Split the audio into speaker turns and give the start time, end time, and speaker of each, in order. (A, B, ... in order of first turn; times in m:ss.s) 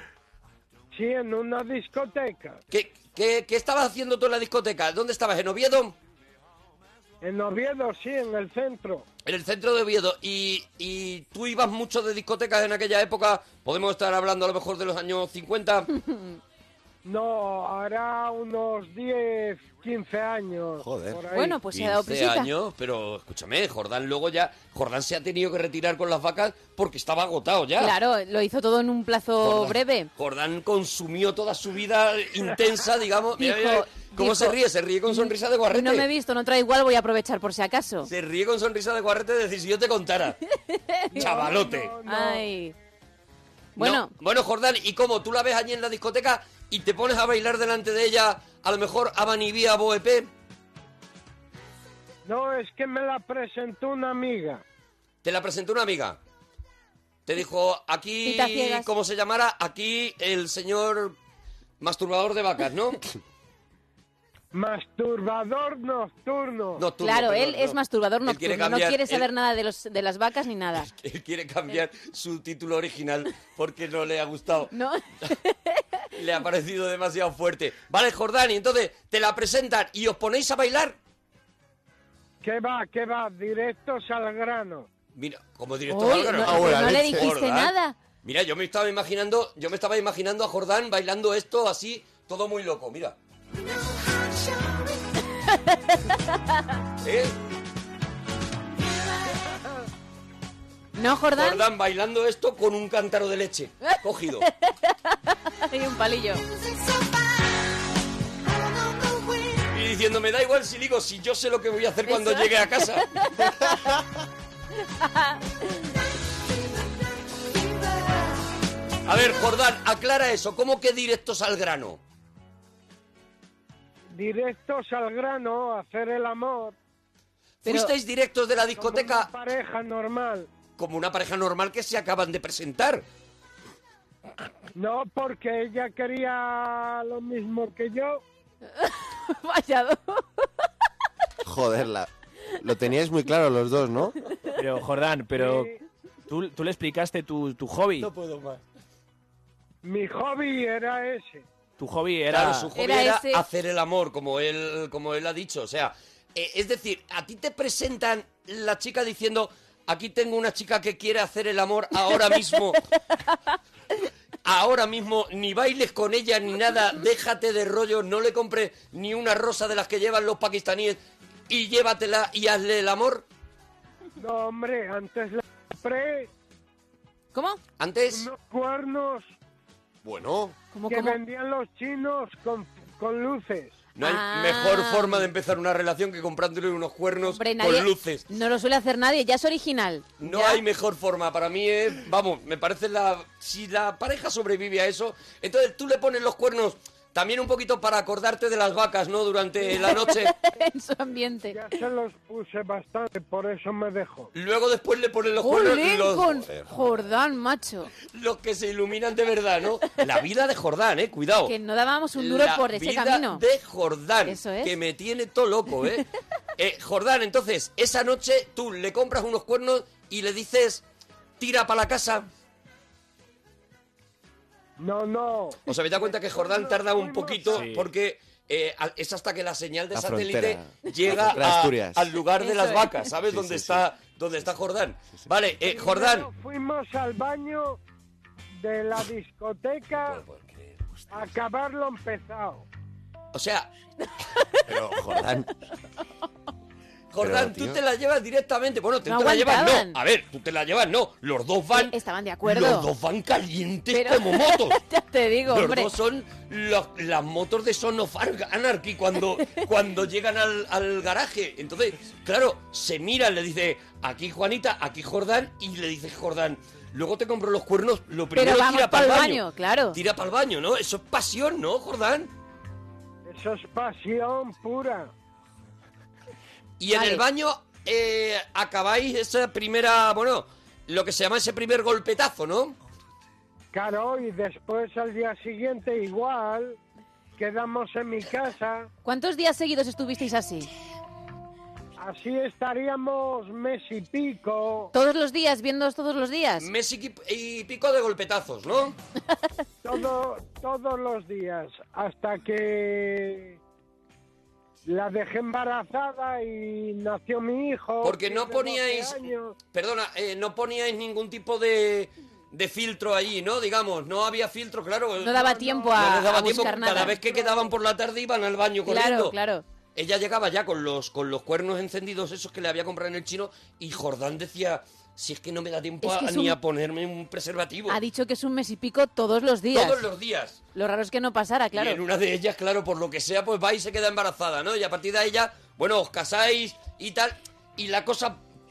0:00.9-0:02.6 A
0:02.7-0:05.9 B
0:07.2-0:09.0 A
0:09.2-0:15.9 B
0:17.0-0:21.6 A
0:20.8-0:21.2 C
0:21.3-0:22.5 D
0:21.7-0:27.9 B
0:27.8-0:30.1 D
0:29.4-0:36.1 B
0:33.4-0:38.1 D
0:38.0-0:40.4 B
0:40.5-0:41.4 D
0:41.1-0:42.4 A
0:41.1-0:41.9 B
0:42.0-0:42.7 D
0:43.8-0:44.1 D
0:43.8-0:50.3 B
0:52.2-0:54.6 A
0:55.2-0:56.2 B
0:57.2-1:01.2 B
0:58.2-0:58.9 D
1:01.8-1:03.0 B
1:04.5-1:06.8 A
1:06.8-1:09.3 B
1:07.0-1:10.9 D
1:10.9-1:14.7 B
1:14.7-1:15.8 D
1:16.2-1:21.0 B
1:22.4-1:24.9 A
1:25.1-1:33.2 B
1:25.9-1:28.0 D
1:26.3-1:27.3 C
1:35.5-1:36.6 D
1:37.0-1:37.3 B
1:41.0-1:41.6 D
1:41.3-1:44.5 B
1:43.8-1:46.4 D
1:49.7-1:53.1 B
1:52.1-1:54.0 D
1:55.0-1:55.5 D
1:59.0-2:02.0 B
2:04.1-2:06.8 A
2:07.6-2:09.3 B
2:07.6-2:07.9 D
2:08.8-2:10.5 A
2:10.8-2:13.0 B
2:14.8-2:18.2 A
2:18.7-2:20.5 D
2:21.4-2:24.2 C
2:24.6-2:25.7 E
2:25.3-2:25.8 A
2:26.3-2:28.1 E
2:28.3-2:28.6 B
2:29.8-2:31.4 A
2:31.8-2:32.7 E
2:32.3-2:42.8 B
2:32.7-2:33.4 D
2:44.4-2:53.2 B
2:54.2-2:56.3 A
2:57.3-2:57.6 D
2:57.8-2:58.3 B
2:58.1-2:59.4 A
3:00.0-3:00.5 B
3:00.7-3:01.2 D
3:00.9-3:03.8 A
3:04.0-3:08.2 B
3:04.0-3:05.3 D
3:07.2-3:10.6 D
3:10.2-3:20.3 B
3:19.7-3:21.6 D
3:21.5-3:24.3 A
3:24.3-3:26.5 B
3:25.4-3:27.9 D
3:28.0-3:31.5 B
3:31.4-3:33.4 D
3:32.1-3:40.8 B
3:34.2-3:34.7 D
3:41.4-3:42.3 B
3:44.8-3:47.7 A
3:45.7-3:56.3 B
3:47.5-3:47.9 E
3:49.9-3:52.2 C
3:52.4-3:53.0 D
3:53.2-3:53.8 C
3:55.6-3:57.8 A
3:58.5-4:00.2 A
4:00.0-4:00.8 B
4:01.1-4:02.6 A
4:03.3-4:03.7 B
4:04.7-4:05.5 C
4:07.1-4:14.8 B
4:07.2-4:07.8 C
4:09.0-4:10.0 D
4:11.7-4:12.9 D
4:13.9-4:15.9 D
4:15.4-4:32.3 B
4:28.3-4:30.0 D
4:33.2-4:35.1 A
4:36.8-4:42.7 B
4:36.9-4:37.2 D
4:43.7-4:46.8 A
4:47.4-4:48.9 A
4:49.0-4:50.7 D
4:52.0-4:54.9 A
4:54.9-4:56.7 D
4:56.6-4:58.9 B
4:59.8-5:03.6 A
5:04.9-5:09.6 A
5:08.0-5:19.3 B
5:15.2-5:17.2 D
5:15.3-5:17.7 A
5:18.8-5:19.6 D
5:19.9-5:28.0 B
5:26.0-5:26.6 D
5:27.9-5:30.0 D
5:29.7-5:30.6 B
5:30.7-5:32.0 D
5:31.7-5:38.4 B